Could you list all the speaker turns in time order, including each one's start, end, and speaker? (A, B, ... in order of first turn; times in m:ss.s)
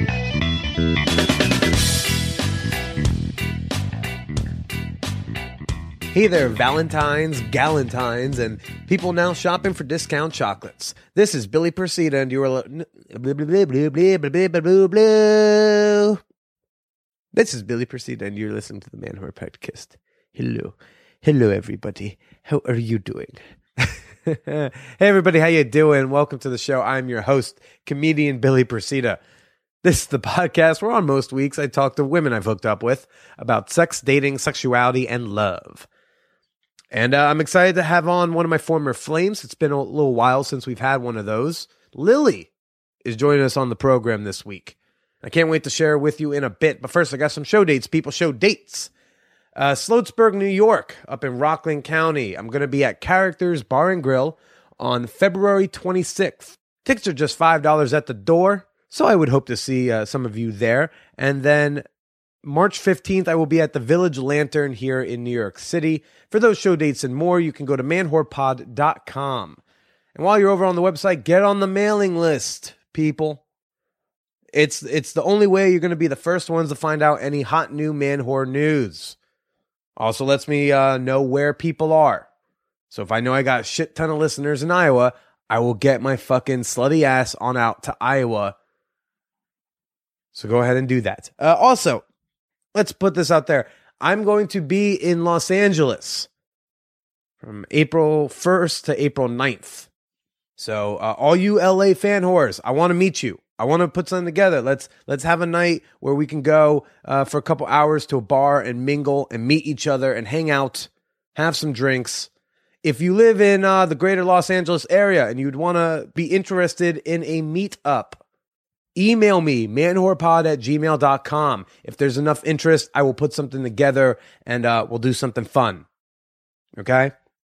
0:06.1-0:16.2 A
0:17.3-0:29.2 A
0:29.8-0:35.9 A
0:36.9-0:42.5 A
0:43.0-0:48.9 A
0:49.6-1:01.8 A
1:02.4-1:09.6 A
1:10.1-1:13.4 A
1:14.5-1:19.2 A
1:20.0-1:22.3 A
1:22.9-1:28.6 A
1:30.3-1:32.0 A
1:32.7-1:36.3 A
1:37.4-1:39.9 A
1:40.6-1:52.3 A
1:52.8-1:58.2 A
1:58.9-2:05.8 A
2:06.8-2:07.1 A